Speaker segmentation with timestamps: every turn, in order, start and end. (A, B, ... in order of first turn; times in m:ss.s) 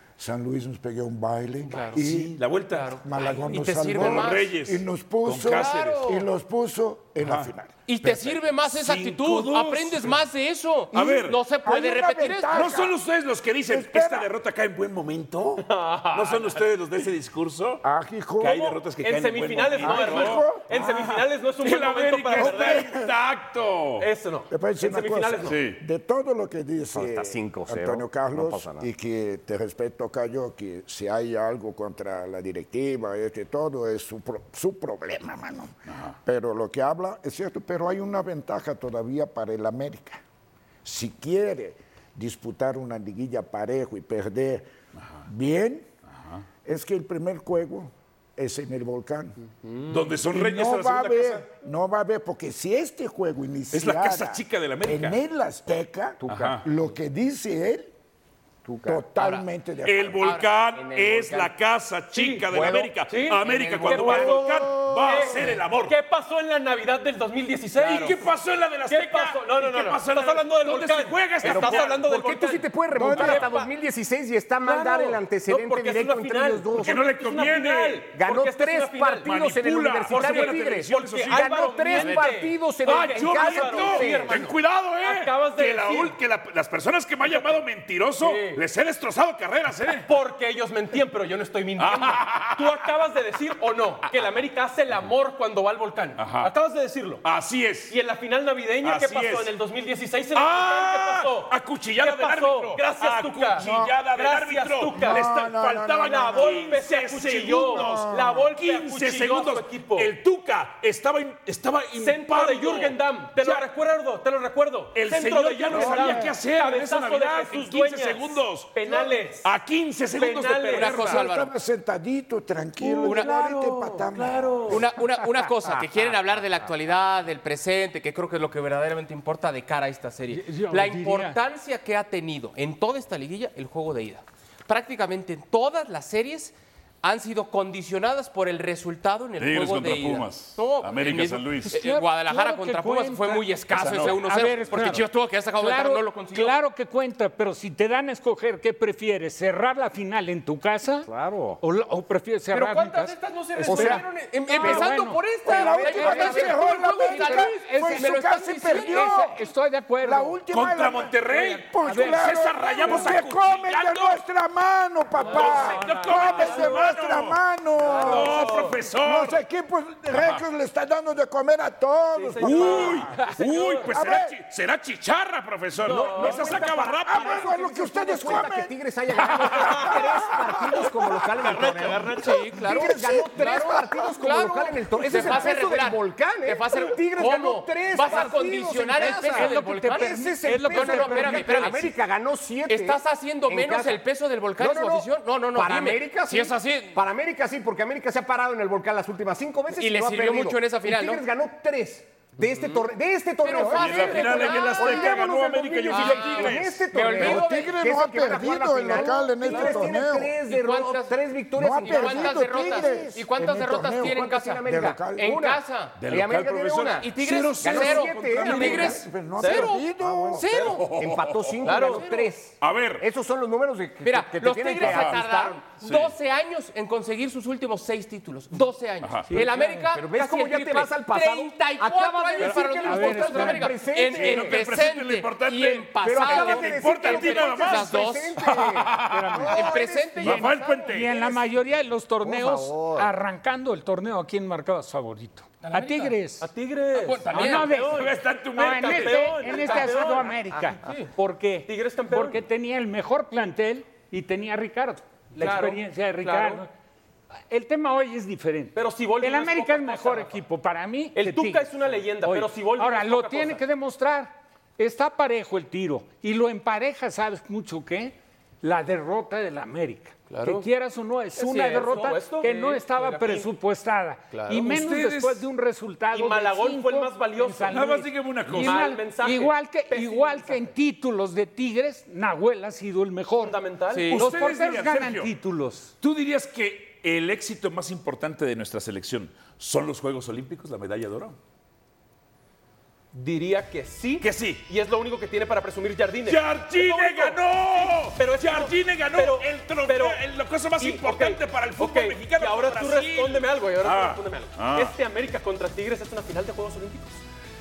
0:00.2-0:07.7 A
0:01.6-0:02.0 B
0:01.9-0:06.1 C
0:02.7-0:04.6 B
0:05.4-0:06.2 B
0:07.2-0:07.5 C
0:07.9-0:12.8 B
0:08.0-0:10.2 C
0:10.9-0:11.4 C
0:11.6-0:12.9 A
0:12.5-0:17.8 C
0:13.7-0:14.3 A
0:15.6-0:17.0 D
0:17.8-0:18.6 A
0:18.4-0:24.1 C
0:18.4-0:22.9 D
0:19.8-0:20.6 A
0:22.4-0:23.1 A
0:24.0-0:25.6 D
0:24.5-0:40.2 A
0:25.4-0:25.8 C
0:26.9-0:28.9 E
0:40.8-0:44.7 A
0:45.2-0:45.9 A
0:46.6-0:49.4 A
0:49.6-0:49.9 E
0:49.9-0:51.4 C
0:50.3-0:57.9 A
0:53.7-0:55.2 C
0:56.2-0:56.6 E
0:56.2-0:56.6 C
0:58.6-0:59.0 E
0:58.8-1:00.2 A
0:59.2-0:59.4 B
0:59.8-1:06.0 C
1:00.2-1:00.6 B
1:00.7-1:01.5 E
1:02.1-1:02.4 D
1:02.5-1:02.9 E
1:03.0-1:08.3 D
1:03.4-1:04.4 E
1:07.8-1:12.0 C
1:08.9-1:13.7 D
1:11.4-1:17.0 E
1:13.1-1:13.5 C
1:14.6-1:19.3 D
1:16.8-1:18.1 C
1:18.1-1:24.4 E
1:19.2-1:22.2 C
1:20.0-1:26.2 D
1:22.8-1:30.1 C
1:27.2-1:27.6 D
1:28.2-1:28.6 D
1:30.0-1:37.2 D
1:31.8-1:32.9 C
1:36.2-1:36.5 C
1:37.2-1:37.9 C
1:37.9-1:45.2 D
1:38.8-1:39.5 C
1:40.3-1:53.7 C
1:43.6-1:43.9 A
1:45.0-1:46.6 A
1:46.1-1:50.1 D
1:47.7-1:48.4 A
1:51.9-1:59.4 D
1:54.9-2:01.2 C
1:55.7-1:56.2 A
2:00.1-2:01.0 D
2:00.7-2:01.5 B
2:01.0-2:04.8 A
2:02.8-2:04.8 D
2:03.0-2:03.3 B
2:04.7-2:26.5 B
2:10.3-2:11.4 F
2:19.4-2:21.8 C
2:21.7-2:25.0 F
2:23.7-2:24.2 C
2:25.6-2:31.1 F
2:31.1-2:31.6 E
2:31.6-2:34.0 F
2:32.5-2:34.8 D
2:33.6-2:34.8 E
2:34.4-2:39.4 B
2:34.6-2:40.4 F
2:35.4-2:39.4 A
2:40.0-2:53.2 A
2:40.5-2:44.2 C
2:41.8-2:42.4 F
2:45.2-2:46.6 D
2:45.3-2:49.4 C
2:47.8-2:48.8 D
2:50.1-2:50.4 C
2:52.1-2:53.9 D
2:52.4-2:57.5 C
2:53.9-2:54.3 A
2:55.8-2:56.6 D
2:55.9-3:14.0 E
2:57.0-2:58.7 A
2:59.3-2:59.8 C
2:59.6-2:59.9 D
3:01.4-3:02.4 D
3:02.2-3:11.9 B
3:02.6-3:04.0 A
3:09.3-3:11.8 F
3:12.7-3:17.0 B
3:14.6-3:33.1 E
3:19.7-3:21.2 B
3:23.4-3:25.2 B
3:23.7-3:26.8 C
3:25.9-3:27.8 B
3:27.2-3:30.4 A
3:30.4-3:31.2 B
3:31.6-3:35.4 A
3:31.8-3:36.0 B
3:33.9-3:39.0 E
3:36.0-3:38.9 C
3:37.0-3:40.9 B
3:38.2-3:40.5 A
3:39.4-3:39.7 D
3:40.5-3:41.8 C
3:40.9-3:45.6 E
3:41.6-3:42.0 D
3:41.7-3:42.3 B
3:42.6-3:43.0 C
3:44.0-3:58.4 B
3:44.8-3:45.2 C
3:45.8-3:46.1 C
3:49.0-3:49.4 C
3:49.3-3:49.8 F
3:49.9-3:54.6 E
3:52.4-3:53.7 F
3:54.1-4:01.1 C
3:56.0-4:00.4 E
3:59.1-3:59.7 F
3:59.5-4:01.4 B
4:00.2-4:06.5 F
4:02.2-4:03.1 E
4:05.7-4:06.1 B
4:06.4-4:10.3 D
4:06.9-4:07.7 B
4:07.3-4:16.7 F
4:07.7-4:09.5 C
4:09.6-4:09.9 B
4:10.8-4:11.1 B
4:11.6-4:12.4 D
4:15.4-4:16.6 D
4:17.5-4:43.6 F
4:18.7-4:20.4 D
4:21.1-4:23.6 D
4:30.3-4:30.6 D
4:31.4-4:33.5 D
4:34.3-4:34.6 D
4:34.6-4:35.4 C
4:36.1-4:40.7 D
4:37.7-4:38.9 C
4:43.4-4:44.1 D
4:43.9-4:44.2 B
4:44.1-4:45.3 C
4:44.1-4:45.9 F
4:46.0-4:51.4 C
4:53.1-5:00.2 D
4:54.2-4:54.6 C
4:56.2-5:05.0 C
5:00.8-5:07.2 D